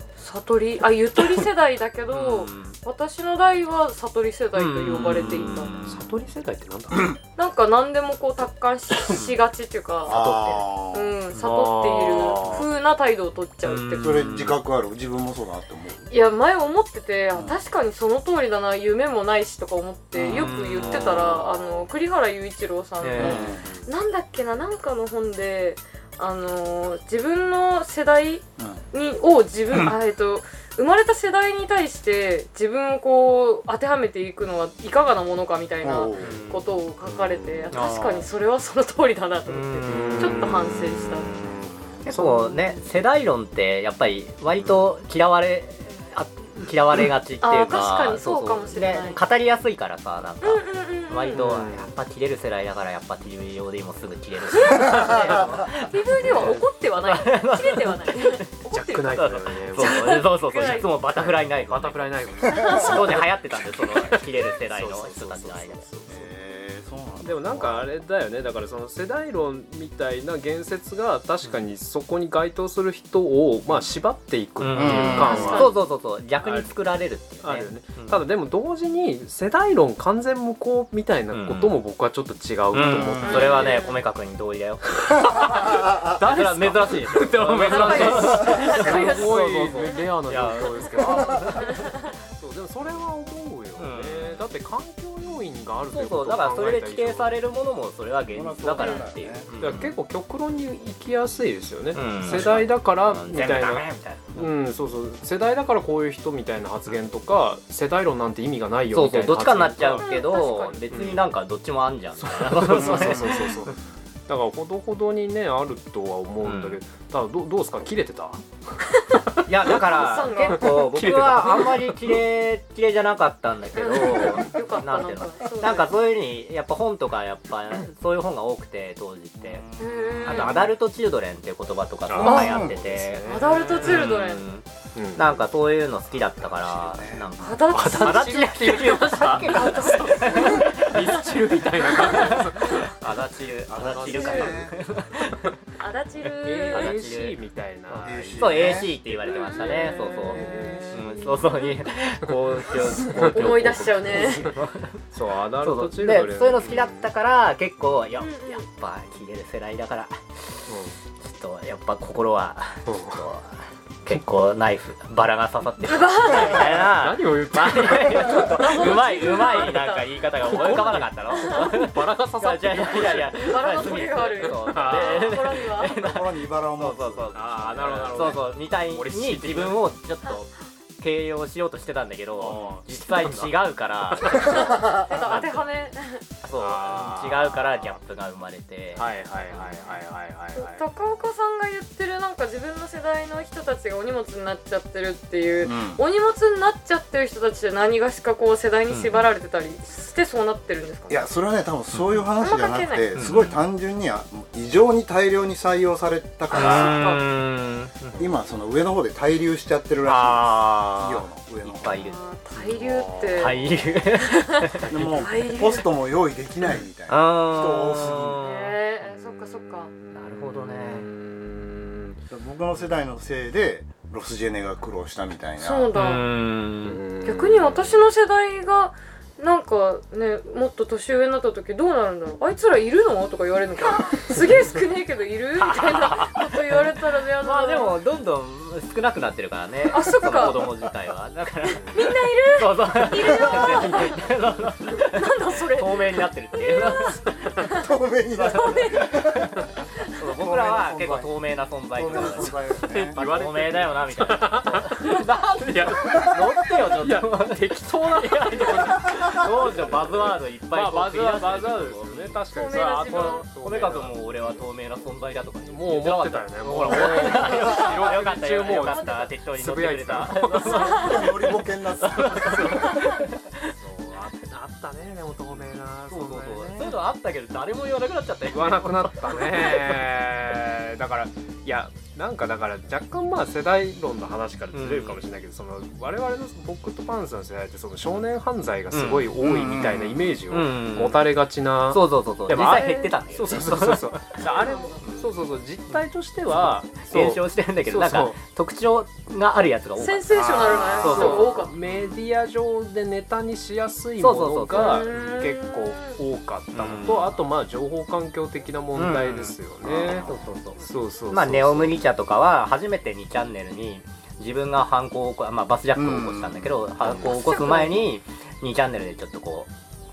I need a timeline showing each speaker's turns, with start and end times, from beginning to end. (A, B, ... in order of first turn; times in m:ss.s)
0:00.2-0:05.7 A
0:02.1-0:02.8 B
0:04.5-0:05.9 B
0:05.3-0:06.1 C
0:05.8-0:07.2 D
0:07.4-0:10.2 A
0:09.1-0:09.4 B
0:10.0-0:11.2 C
0:10.1-0:10.6 D
0:10.9-0:14.3 A
0:11.4-0:12.7 D
0:13.6-0:14.6 B
0:14.0-0:16.1 C
0:16.1-0:41.3 A
0:20.1-0:21.7 C
0:20.3-0:21.4 B
0:23.0-0:23.6 B
0:23.1-0:23.7 C
0:28.6-0:28.8 C
0:35.8-0:36.4 C
0:36.2-0:36.6 B
0:37.7-0:38.3 B
0:39.5-0:58.5 B
0:39.8-0:41.6 D
0:41.7-0:42.0 C
0:42.1-0:42.6 D
0:47.4-0:49.2 A
0:50.4-0:51.4 A
0:51.3-0:51.9 D
0:54.5-0:59.2 A
0:55.0-0:55.5 D
0:56.1-0:56.6 D
0:58.7-1:06.3 D
0:59.0-1:05.8 B
0:59.8-1:00.9 A
1:02.5-1:02.9 A
1:06.1-1:07.9 C
1:07.2-1:15.8 D
1:14.6-1:18.2 B
1:14.7-1:15.6 C
1:15.1-1:15.7 A
1:16.4-1:23.8 D
1:21.3-1:21.8 B
1:22.7-1:32.0 B
1:22.8-1:23.4 C
1:23.2-1:24.0 A
1:25.2-1:37.4 D
1:25.4-1:26.1 C
1:27.6-1:30.0 A
1:30.8-1:32.1 A
1:33.8-1:34.4 B
1:35.9-1:39.9 B
1:38.3-1:39.5 C
1:38.8-1:39.1 A
1:39.6-1:51.2 D
1:41.9-1:44.5 B
1:48.9-1:53.7 B
1:50.0-1:50.8 A
1:52.2-1:58.4 D
1:56.4-1:56.8 B
1:58.9-2:02.2 D
1:59.4-2:09.6 B
1:59.8-2:00.7 A
2:03.8-2:05.9 A
2:09.4-2:10.7 C
2:09.8-2:10.7 A
2:10.2-2:14.6 B
2:12.1-2:14.3 D
2:12.2-2:12.8 C
2:12.2-2:12.6 A
2:13.2-2:14.5 A
2:14.9-2:15.5 D
2:15.2-2:21.2 B
2:16.4-2:17.6 C
2:17.4-2:21.1 A
2:17.7-2:22.9 D
2:21.8-2:25.5 B
2:22.1-2:22.8 A
2:23.7-2:25.0 C
2:23.8-2:24.6 D
2:24.1-2:24.5 A
2:25.8-2:27.0 A
2:26.3-2:27.4 B
2:26.4-2:31.3 D
2:27.9-2:35.0 B
2:28.0-2:29.0 C
2:29.2-2:31.8 A
2:30.3-2:31.1 C
2:32.2-2:37.1 D
2:32.9-2:34.5 A
2:35.6-2:40.6 B
2:38.2-2:38.6 A
2:40.7-2:41.0 D
2:41.2-3:05.7 B
2:42.8-2:43.3 D
2:45.8-2:46.8 A
2:46.3-2:49.5 D
2:48.2-2:51.8 A
2:50.4-2:53.8 D
2:52.9-2:56.0 A
2:54.5-2:55.4 D
2:55.9-2:58.3 C
2:57.3-2:59.9 D
3:02.4-3:02.8 C
3:02.4-3:04.6 D
3:04.4-3:06.2 A
3:04.6-3:05.0 C
3:06.4-3:10.0 B
3:06.5-3:08.0 D
3:09.0-3:10.8 D
3:10.6-3:21.2 A
3:15.6-3:16.0 C
3:18.9-3:19.3 B
3:21.1-3:27.2 C
3:21.9-3:22.2 B
3:22.4-3:23.1 A
3:23.2-3:23.6 B
3:26.5-3:28.3 B
3:26.5-3:27.2 A
3:28.2-3:32.1 C
3:30.0-3:32.2 B
3:32.0-3:33.6 A
3:32.6-3:33.9 D
3:33.4-3:34.9 B
3:34.2-3:35.9 A
3:34.8-3:38.4 C
3:36.7-3:38.8 B
3:38.4-3:39.9 A
3:40.1-3:42.2 D
3:40.1-3:41.1 B
3:42.3-3:45.9 C
3:45.6-3:46.2 A
3:45.9-3:47.0 B
3:46.8-3:48.0 D
3:47.2-3:58.0 A
3:55.6-3:56.5 B
3:57.4-4:07.2 B
3:59.8-4:00.7 A
4:01.6-4:04.2 A
4:03.2-4:04.0 C
4:05.0-4:09.4 A
4:07.3-4:07.6 D
4:07.6-4:09.7 C
4:10.2-4:22.4 B
4:10.4-4:11.4 C
4:11.9-4:13.2 C
4:12.8-4:24.6 D
4:16.1-4:16.4 C
4:22.5-4:23.5 A
4:23.6-4:34.3 B
4:25.6-4:31.2 D
4:28.8-4:29.3 A
4:30.6-4:31.1 A
4:30.8-4:33.0 C
4:32.3-4:33.0 D
4:33.8-4:37.0 D
4:36.1-4:40.1 B
4:38.5-4:58.4 D
4:44.7-4:45.2 B
4:48.9-4:49.3 B
4:49.4-4:50.4 C
4:50.5-4:51.2 B
4:51.9-4:54.5 B
4:52.8-4:53.1 A
4:54.4-4:55.0 A
4:55.0-4:55.3 B
4:57.1-5:02.0 B
5:00.0-5:01.7 A
5:00.6-5:12.0 D
5:04.2-5:05.2 B
5:04.7-5:06.2 A
5:06.7-5:07.4 B
5:09.0-5:19.7 B
5:09.8-5:10.3 C
5:15.9-5:16.9 C
5:17.1-5:18.1 A